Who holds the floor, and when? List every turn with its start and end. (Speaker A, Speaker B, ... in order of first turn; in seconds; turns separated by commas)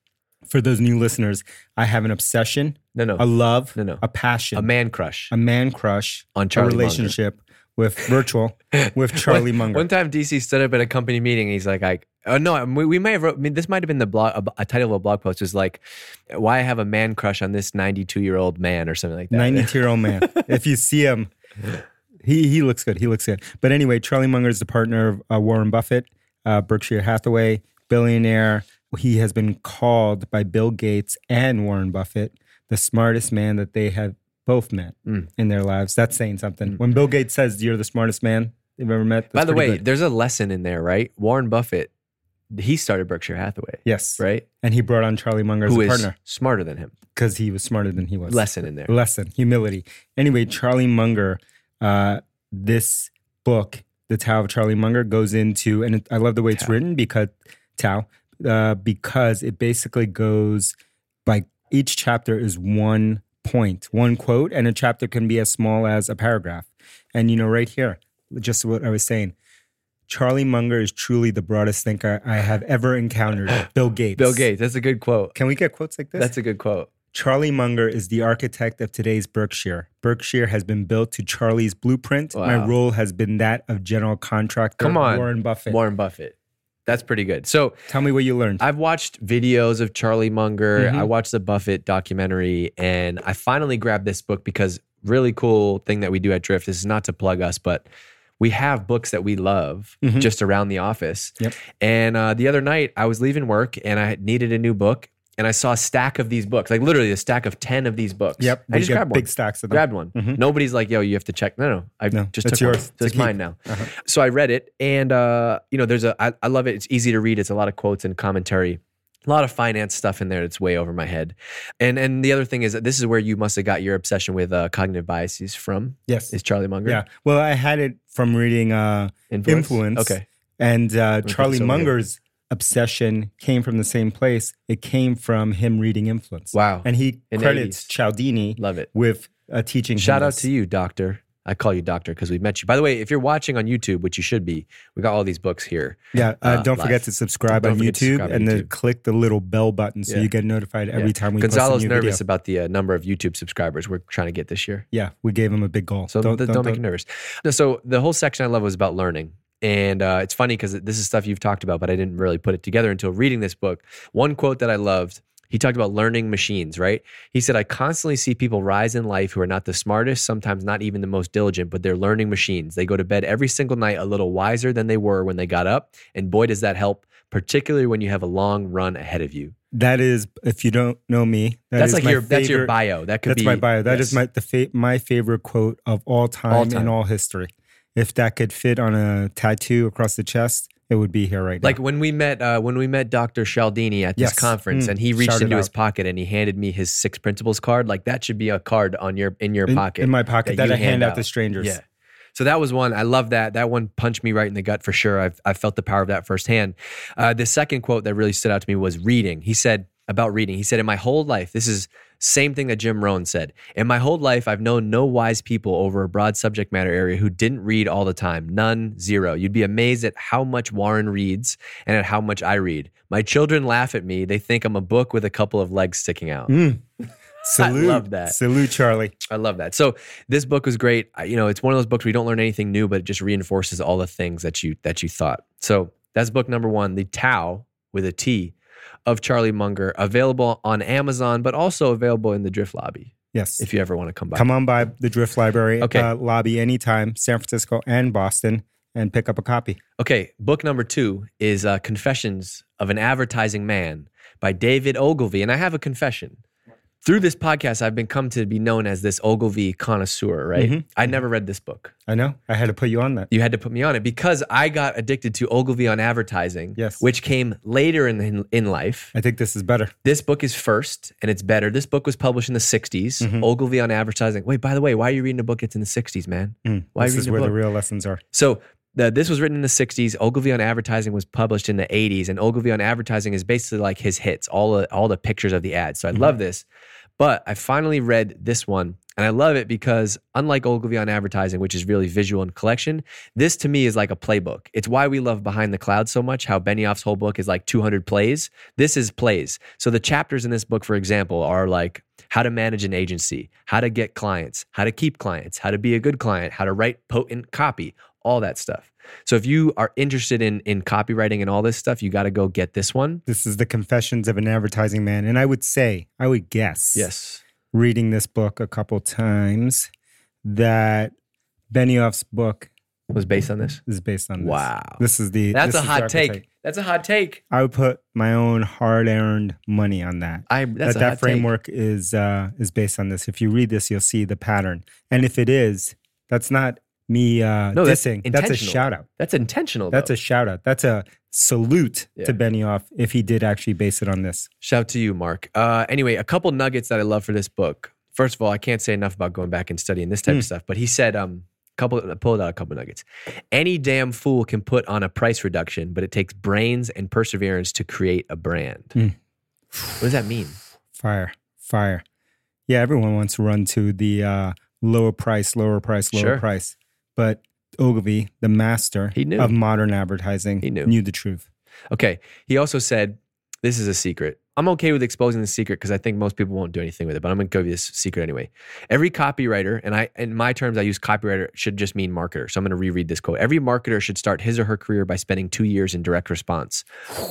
Speaker A: 0.5-4.7, Speaker B: 2.9-4.0, Speaker B: 4.5-5.3, Speaker A: 5.3-9.9, Speaker B: 6.3-7.2, Speaker B: 8.7-20.5, Speaker A: 19.3-21.3, Speaker A: 22.2-39.8, Speaker B: 39.3-41.9, Speaker B: 42.5-44.4, Speaker A: 43.8-46.1, Speaker B: 45.6-46.9, Speaker A: 47.1-60.7, Speaker B: 48.3-48.9, Speaker A: 61.2-69.3, Speaker A: 70.1-74.4, Speaker B: 73.5-75.3, Speaker A: 75.3-76.3, Speaker B: 76.2-76.9, Speaker A: 77.1-85.8, Speaker B: 82.3-82.7, Speaker B: 84.8-87.9, Speaker A: 87.9-88.6, Speaker B: 88.6-97.8, Speaker A: 90.8-91.1, Speaker B: 98.4-127.0, Speaker A: 100.0-100.3, Speaker A: 108.4-110.4, Speaker A: 112.1-113.9, Speaker A: 126.1-126.3, Speaker A: 126.8-140.4, Speaker B: 129.3-130.2, Speaker B: 131.2-131.9, Speaker B: 136.5-137.9, Speaker B: 138.6-138.9, Speaker B: 140.0-148.7, Speaker A: 146.1-152.2, Speaker B: 150.9-154.8, Speaker A: 154.9-156.8, Speaker B: 156.1-179.5, Speaker A: 179.7-182.7, Speaker B: 181.8-184.2, Speaker A: 183.2-191.8, Speaker B: 186.5-186.9, Speaker B: 191.6-201.8, Speaker A: 194.2-195.7, Speaker A: 199.7-201.8, Speaker B: 202.3-226.6, Speaker A: 226.5-226.8, Speaker A: 227.4-229.2, Speaker B: 227.5-228.4, Speaker B: 229.3-238.5, Speaker B: 239.1-244.5, Speaker A: 243.3-243.6, Speaker A: 244.3-249.8, Speaker B: 245.8-246.1, Speaker B: 250.0-256.4, Speaker B: 257.0-261.9, Speaker A: 260.6-260.8, Speaker A: 262.1-263.3, Speaker B: 263.3-269.1, Speaker A: 266.8-267.0, Speaker A: 269.1-269.9, Speaker B: 270.0-277.6, Speaker A: 273.2-273.5, Speaker A: 276.6-278.2, Speaker B: 278.3-286.6, Speaker B: 287.2-313.2, Speaker A: 313.3-317.1, Speaker B: 316.9-317.4, Speaker A: 317.7-319.9, Speaker A: 320.4-321.1, Speaker A: 321.7-322.7, Speaker B: 323.1-323.8, Speaker A: 323.9-326.4, Speaker B: 324.4-325.0, Speaker B: 325.5-327.4, Speaker A: 327.5-339.1, Speaker B: 330.5-331.5, Speaker B: 337.7-340.1, Speaker A: 339.9-344.5, Speaker B: 344.6-359.0, Speaker B: 360.0-360.6, Speaker A: 360.9-362.0, Speaker A: 362.7-371.4, Speaker B: 366.1-366.4, Speaker B: 369.1-369.5, Speaker B: 370.6-370.9, Speaker B: 371.9-386.8